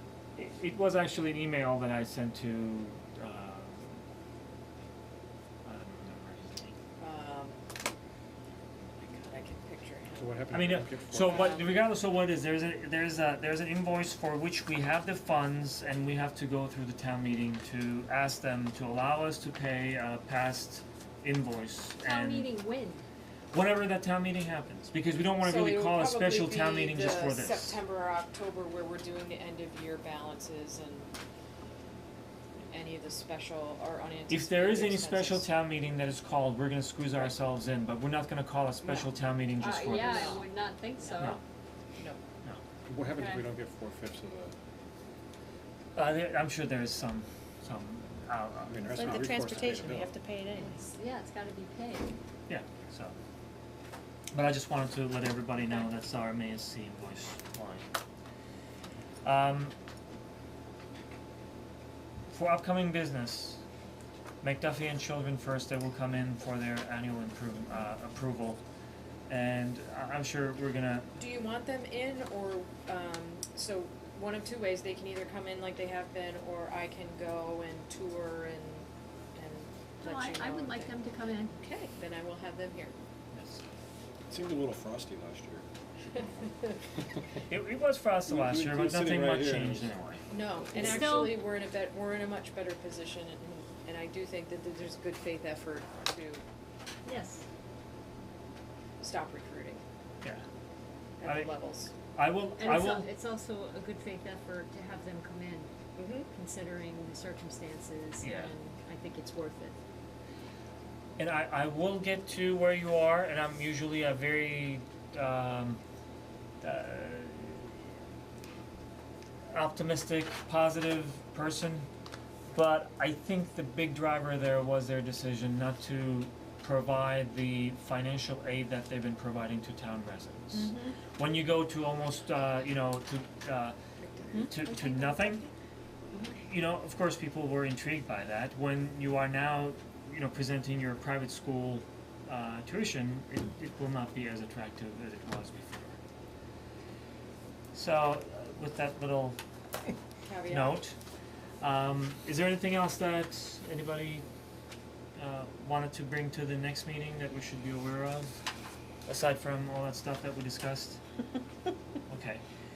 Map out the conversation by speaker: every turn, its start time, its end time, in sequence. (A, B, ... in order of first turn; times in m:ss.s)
0:00.4-0:04.0 A
0:05.6-0:06.8 A
0:07.0-0:07.6 B
0:09.0-0:10.4 B
0:10.2-0:11.6 C
0:10.5-0:22.5 A
0:11.2-0:11.8 B
0:22.0-0:23.0 D
0:23.5-0:27.8 A
0:25.4-0:31.1 B
0:32.7-0:35.5 B
0:34.3-0:40.4 A
0:39.6-0:41.4 D
0:39.8-0:40.4 B
0:41.0-0:41.3 B
0:42.9-0:44.5 C
0:43.1-0:43.5 D
0:46.0-0:49.5 A
0:48.7-0:50.1 C
0:49.0-0:50.7 E
0:50.6-0:52.1 D
0:52.5-0:53.1 A
0:54.3-0:57.9 A
0:59.2-0:59.7 A
1:02.3-1:03.6 A
1:04.4-1:08.6 A
1:09.3-1:11.1 A
1:11.2-1:21.0 B
1:20.0-1:21.6 D
1:21.6-1:22.9 B
1:23.3-1:23.6 A
1:24.3-1:25.6 C
1:27.5-1:30.2 A
1:28.3-1:29.9 C
1:30.3-1:36.4 B
1:30.8-1:31.4 D
1:37.0-1:37.4 D
1:39.0-1:39.8 B
1:41.2-1:41.9 B
1:41.2-1:41.5 A
1:42.1-1:43.1 A
1:42.6-1:45.7 D
1:46.0-1:46.3 B
1:46.3-1:49.7 D
1:48.2-1:48.5 A
1:51.2-1:55.8 A
1:56.6-1:57.8 A
1:59.5-2:01.9 A
2:02.5-2:13.8 A
2:14.3-2:15.4 A
2:14.4-2:15.5 E
2:16.1-2:26.0 A
2:27.7-2:29.4 A
2:30.2-2:30.8 B
2:30.5-2:31.0 A
2:31.6-2:34.2 A
2:35.2-2:38.4 A
2:39.0-2:41.0 A
2:42.1-2:42.4 A